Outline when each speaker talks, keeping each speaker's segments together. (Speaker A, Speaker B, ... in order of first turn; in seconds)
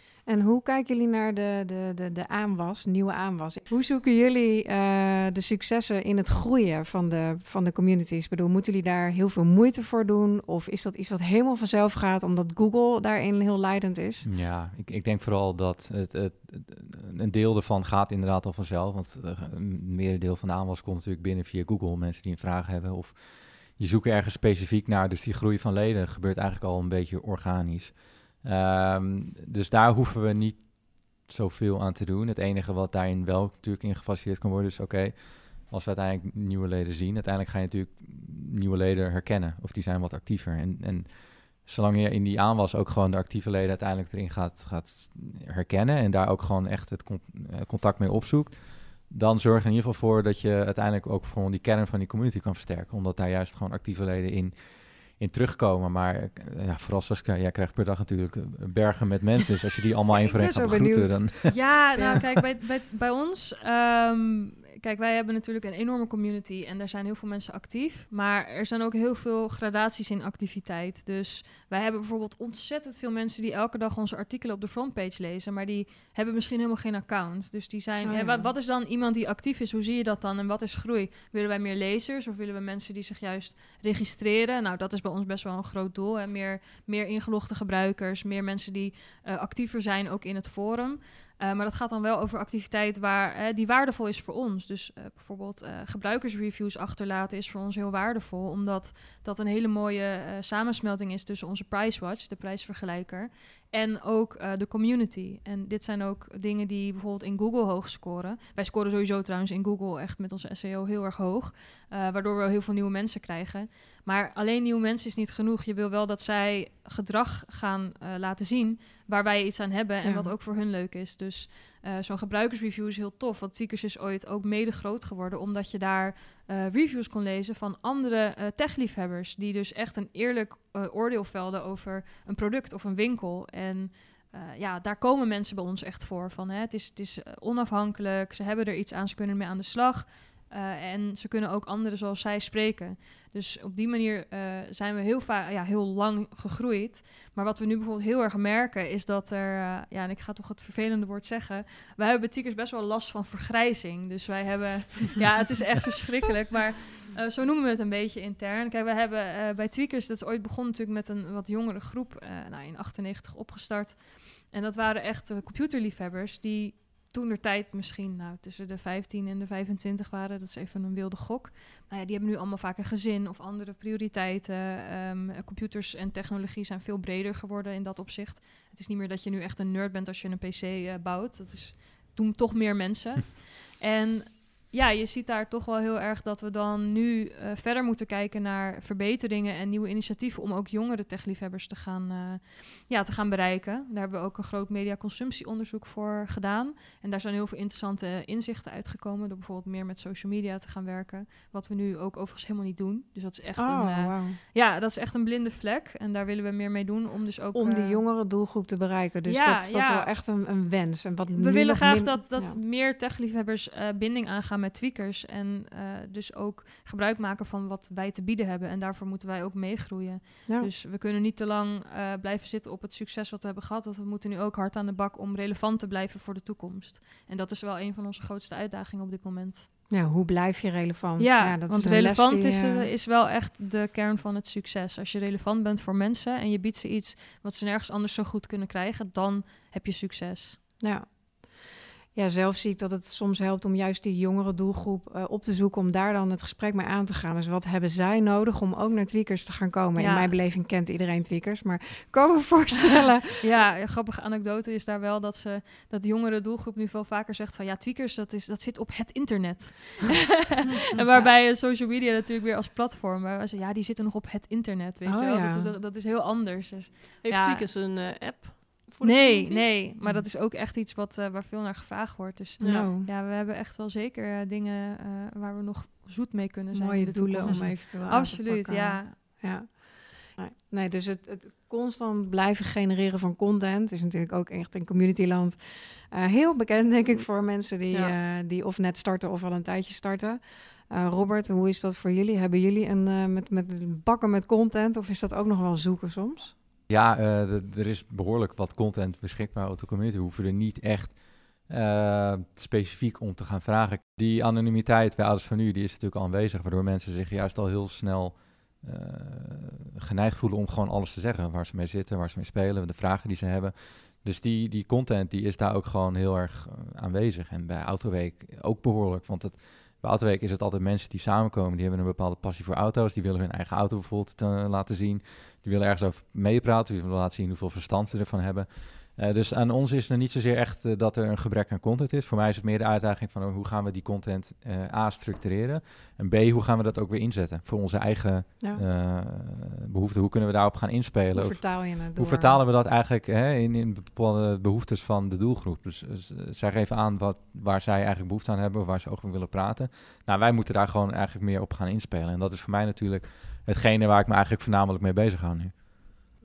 Speaker A: 0.3-14.2, 60.1-62.2, 78.0-78.5, 120.0-120.3, 203.6-204.4, 207.5-212.6, 229.9-232.9, 240.8-241.5, 242.1-253.4, 265.0-265.7, 270.0-270.2, 272.6-273.1, 276.7-296.5, 341.3-342.6
Speaker B: 14.2-61.5, 296.9-355.7
Speaker C: 61.5-208.0, 209.2-210.1, 211.3-229.7, 231.2-240.6, 249.9-250.3, 253.4-267.6, 269.0-279.1
Speaker D: 267.2-269.7, 272.6-272.9